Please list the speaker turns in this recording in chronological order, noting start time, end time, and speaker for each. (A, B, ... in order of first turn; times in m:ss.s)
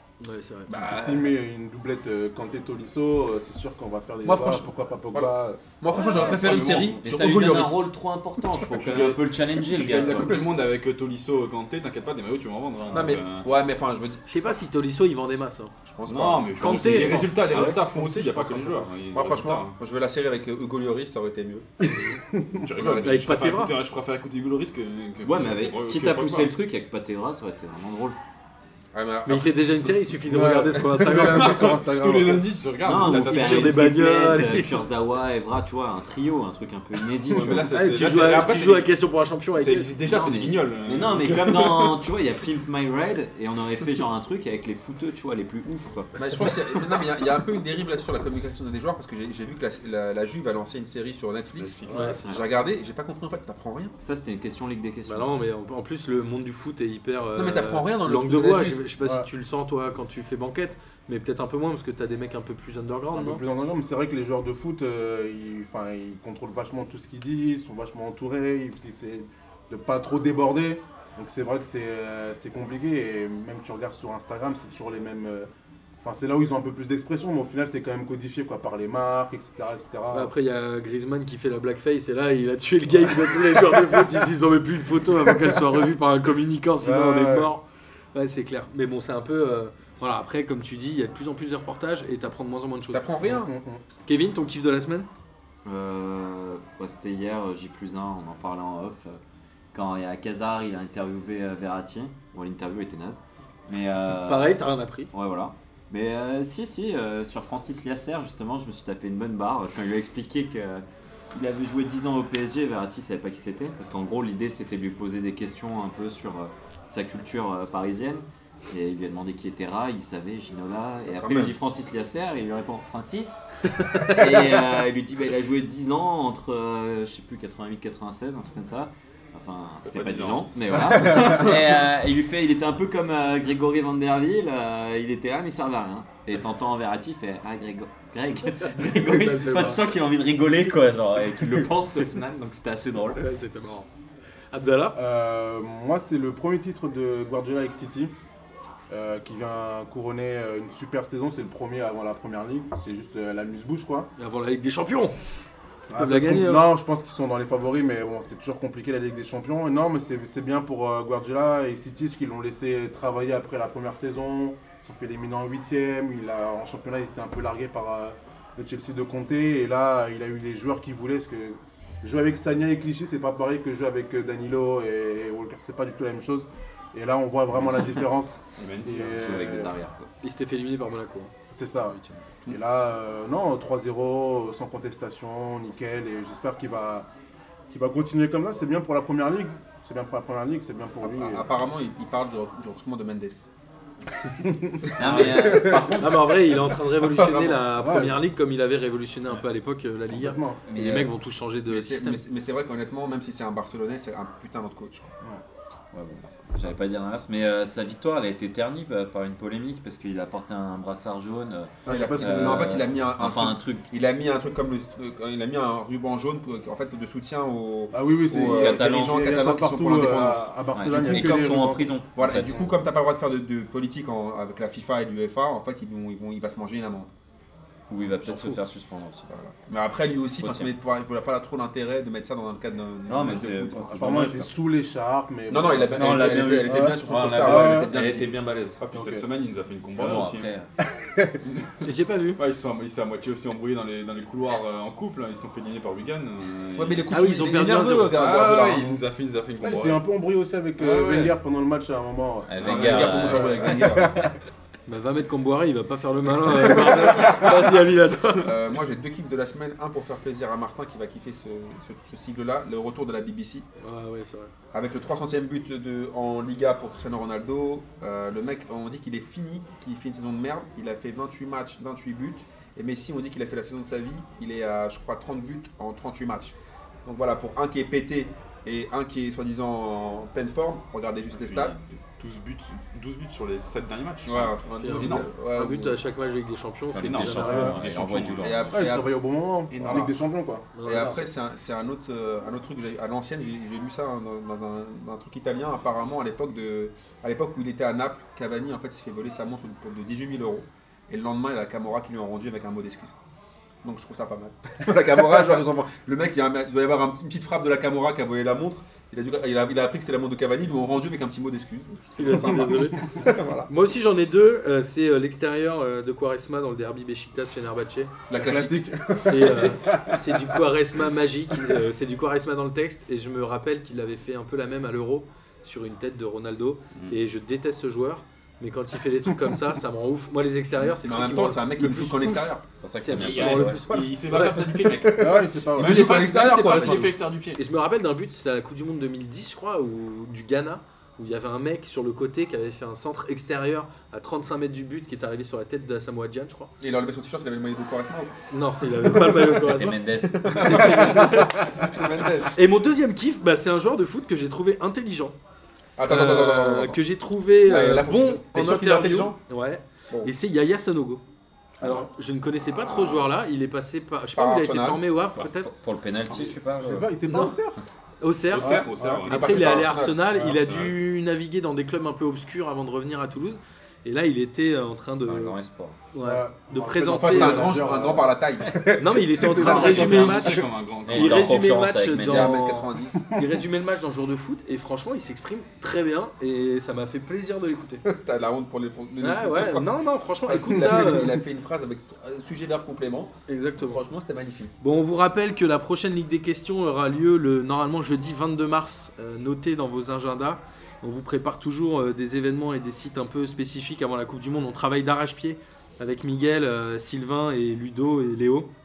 0:00.2-0:00.7 A
0:00.7-0:01.4 B
0:00.7-0:05.6 C
0:04.2-0:07.9 B
0:05.9-0:07.0 D
0:07.0-0:10.5 E
0:08.6-0:09.2 B
0:08.8-0:13.4 D
0:09.8-0:10.5 B
0:12.9-0:14.2 B
0:14.3-0:15.7 A
0:15.8-0:17.2 B
0:16.0-0:19.8 D
0:16.6-0:18.9 A
0:16.7-0:17.8 E
0:19.1-0:21.7 B
0:21.8-0:22.2 A
0:22.3-0:22.7 C
0:22.5-0:26.5 D
0:22.8-0:23.0 B
0:22.8-0:23.7 A
0:25.2-0:28.2 E
0:28.9-0:29.6 B
0:29.2-0:31.8 A
0:30.3-0:32.5 C
0:31.5-0:33.9 D
0:32.8-0:37.7 E
0:33.0-0:34.7 A
0:37.3-0:38.9 D
0:37.7-0:40.0 A
0:39.6-0:42.0 D
0:40.0-0:46.5 E
0:46.2-0:53.9 B
0:51.5-0:52.4 D
0:51.9-0:52.2 A
0:52.0-0:52.6 E
0:54.0-0:55.4 E
0:55.0-1:03.4 A
0:57.4-0:58.8 B
0:59.0-0:59.3 C
1:03.1-1:15.5 C
1:16.0-1:20.3 C
1:20.1-1:33.0 A
1:23.6-1:23.9 C
1:26.8-1:27.5 C
1:32.9-1:33.5 B
1:33.2-1:33.8 C
1:34.0-1:35.1 A
1:35.6-1:39.2 E
1:39.7-2:03.4 E
1:44.2-1:45.1 A
2:01.1-2:01.5 B
2:04.0-2:23.2 E
2:09.8-2:10.5 D
2:18.6-2:19.9 A
2:23.1-2:23.9 A
2:24.5-2:25.0 A
2:24.9-2:28.1 C
2:28.9-2:34.1 C
2:34.2-2:35.1 A
2:35.9-2:59.7 C
2:35.9-2:36.7 A
2:58.6-2:59.2 D
2:59.1-3:00.1 E
3:00.2-3:02.2 A
3:01.5-3:07.1 C
3:07.7-3:11.5 C
3:11.0-3:13.4 B
3:14.4-3:16.3 C
3:15.0-3:16.0 E
3:15.0-3:15.4 B
3:15.1-3:22.2 A
3:17.1-3:18.2 C
3:20.1-3:20.6 C
3:20.6-3:21.1 E
3:21.7-3:25.1 B
3:25.9-3:33.9 E
3:31.8-3:32.8 C
3:31.9-3:47.1 B
3:37.9-3:42.7 C
3:38.5-3:39.2 E
3:40.7-3:42.7 E
3:47.9-3:49.3 E
3:48.3-3:48.6 A
3:49.3-3:54.2 B
3:50.4-3:50.7 E
3:53.0-3:54.5 E
3:53.2-3:58.0 C
3:55.5-3:58.4 B
3:55.9-3:58.8 E
3:58.8-4:00.5 D
3:58.9-3:59.2 C
4:00.0-4:00.7 E
4:00.8-4:01.4 C
4:01.4-4:07.1 D
4:01.8-4:02.4 A
4:06.8-4:08.9 B
4:07.1-4:08.3 A
4:08.1-4:10.0 D
4:09.6-4:14.3 C
4:10.8-4:11.4 D
4:12.5-4:13.8 E
4:12.6-4:14.2 B
4:12.6-4:13.2 D
4:14.9-4:18.5 A
4:16.5-4:17.5 C
4:18.4-4:23.6 B
4:23.8-4:24.5 A
4:24.7-4:41.7 B
4:41.3-4:45.3 D
4:44.2-4:46.0 B
4:44.8-4:47.8 A
4:46.9-4:48.7 E
4:46.9-4:48.7 D
4:47.3-4:47.7 C
4:48.4-4:49.2 B
4:48.7-4:50.8 C
4:49.7-4:50.1 D
4:49.8-4:50.2 B
4:50.7-4:51.2 A
4:50.8-5:03.1 B
5:03.8-5:13.7 B
5:12.2-5:13.0 A
5:13.7-5:18.1 A
5:18.3-5:18.8 B
5:18.3-5:20.6 C
5:19.1-5:34.8 A
5:30.8-5:32.6 B
5:32.8-5:33.8 E
5:33.2-5:37.6 D
5:35.0-5:37.1 B
5:35.2-5:36.2 C
5:36.7-5:46.7 A
5:46.8-5:48.3 B
5:48.5-5:51.7 A
5:49.4-5:51.2 E
5:50.2-5:52.5 B
5:52.5-5:55.3 A
5:56.0-5:57.0 B
5:56.0-6:01.2 A
5:57.6-5:59.4 B
6:01.8-6:02.1 B
6:01.8-6:05.7 A
6:02.7-6:03.3 B
6:04.3-6:05.0 B
6:05.3-6:07.1 E
6:06.8-6:07.8 C
6:07.3-6:07.6 A
6:08.2-6:15.6 A
6:08.5-6:09.9 D
6:08.6-6:09.4 C
6:09.3-6:10.2 B
6:10.2-6:10.6 C
6:10.5-6:11.0 D
6:15.2-6:16.0 E
6:16.1-6:17.9 A
6:16.2-6:19.8 C
6:17.1-6:20.5 B
6:19.0-6:28.0 A
6:19.5-6:22.6 E
6:19.5-6:21.6 D
6:22.2-6:23.2 B
6:28.0-6:29.9 B
6:29.2-6:31.4 A
6:30.4-6:34.7 B
6:33.5-6:34.0 A
6:34.8-6:48.7 A